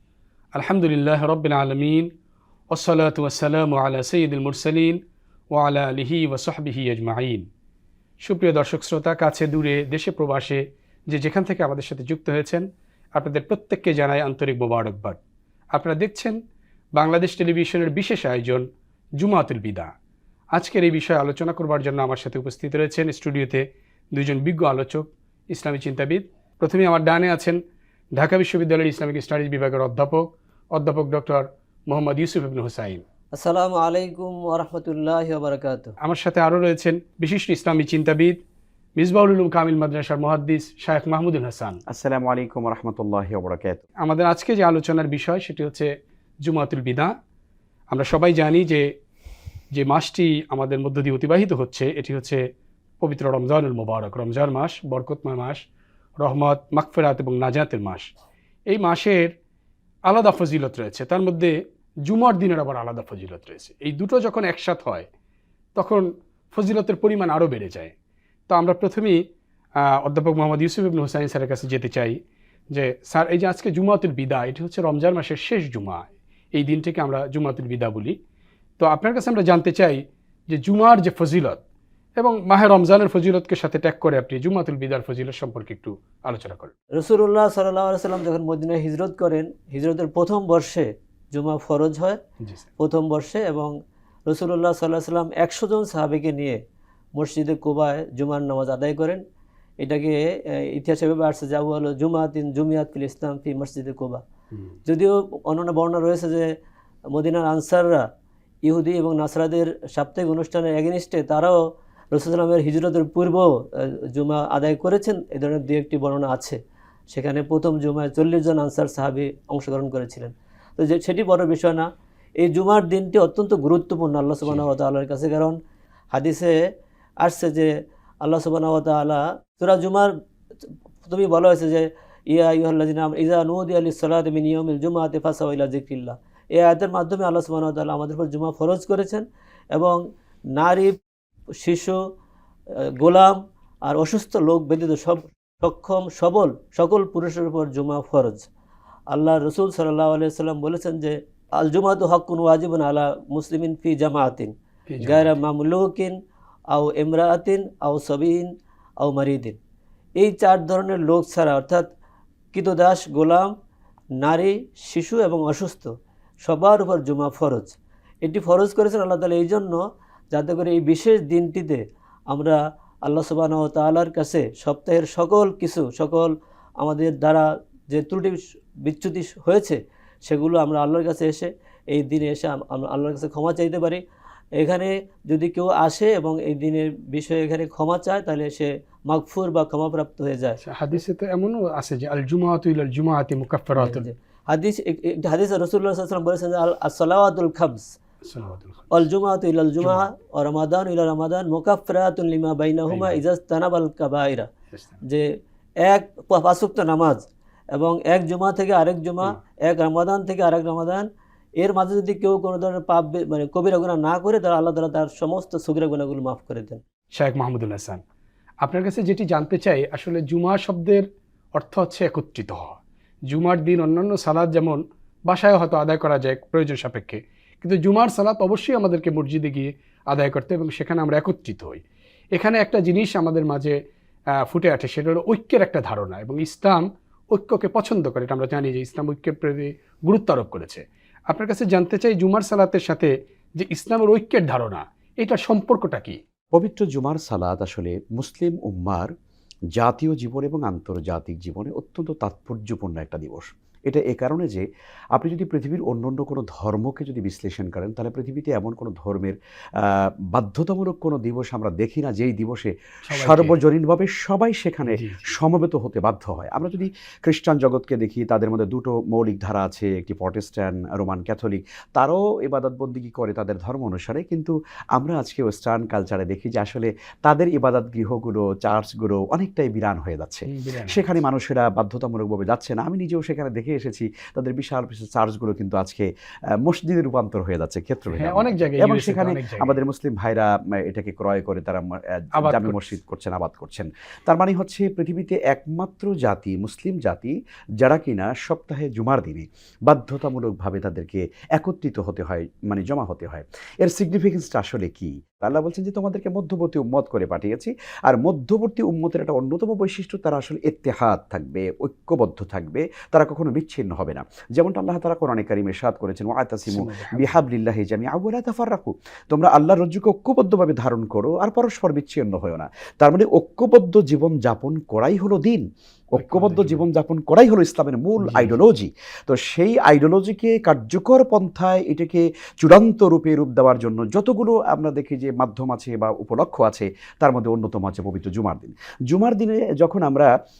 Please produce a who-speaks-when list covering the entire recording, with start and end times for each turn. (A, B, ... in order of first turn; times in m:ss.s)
0:00.5-0:02.1 A
0:02.7-0:05.0 A
0:05.5-0:07.4 A
0:08.2-0:15.2 A
0:15.7-0:16.4 A
0:16.9-0:18.6 A
0:19.2-0:19.9 A
0:20.5-0:27.6 A
0:28.1-0:33.0 A
0:33.3-0:36.0 B
0:36.0-0:38.4 A
0:39.0-0:41.8 A
0:41.9-0:43.8 C
0:44.0-0:45.9 A
0:46.4-0:47.1 A
0:47.9-0:48.9 A
0:49.7-0:52.4 A
0:53.0-0:55.6 A
0:56.2-0:58.1 A
0:58.7-0:59.3 A
1:00.1-1:01.5 A
1:02.0-1:05.1 A
1:05.7-1:07.9 A
1:08.5-1:09.2 A
1:09.8-1:12.2 A
1:12.7-1:18.2 A
1:18.8-1:21.6 A
1:22.2-1:26.7 A
1:26.9-1:32.2 B
1:32.4-1:32.7 A
1:32.8-1:33.7 B
1:34.3-1:36.6 B
1:37.2-1:39.2 B
1:39.8-1:44.2 B
1:44.9-1:46.5 B
1:47.1-1:48.1 B
1:48.6-1:51.6 B
1:52.1-1:56.6 B
1:57.1-2:01.9 B
2:02.4-2:05.6 B
2:06.1-2:06.6 B
2:07.2-2:07.7 B
2:08.2-2:10.1 B
2:11.0-2:20.0 B
2:20.6-2:21.0 B
2:21.6-2:22.0 B
2:22.8-2:28.4 B
2:29.1-2:36.2 B
2:34.9-2:35.3 A
2:36.7-2:38.5 B
2:39.0-2:39.6 B
2:40.2-2:41.9 B
2:42.5-2:43.5 B
2:44.2-2:45.9 B
2:46.4-2:49.8 B
2:50.3-3:04.0 B
3:04.6-3:10.6 B
3:10.6-3:14.1 A
3:13.8-3:18.0 B
3:18.2-3:19.0 A
3:18.9-3:24.5 B
3:22.9-3:23.2 A
3:24.7-3:25.0 A
3:25.0-3:25.3 B
3:25.8-3:31.1 B
3:31.6-3:36.8 B
3:37.2-3:38.0 A
3:38.6-3:51.8 A
3:52.3-3:53.8 A
3:54.4-4:06.2 A
4:06.5-4:09.1 C
4:09.7-4:46.1 C
4:23.1-4:23.6 A
4:24.9-4:25.2 A
4:40.5-4:41.0 A
4:46.6-5:40.3 C
4:48.1-4:49.8 A
4:52.4-4:52.9 A
5:16.7-5:17.4 A
5:26.2-5:26.8 A
5:28.2-5:28.6 A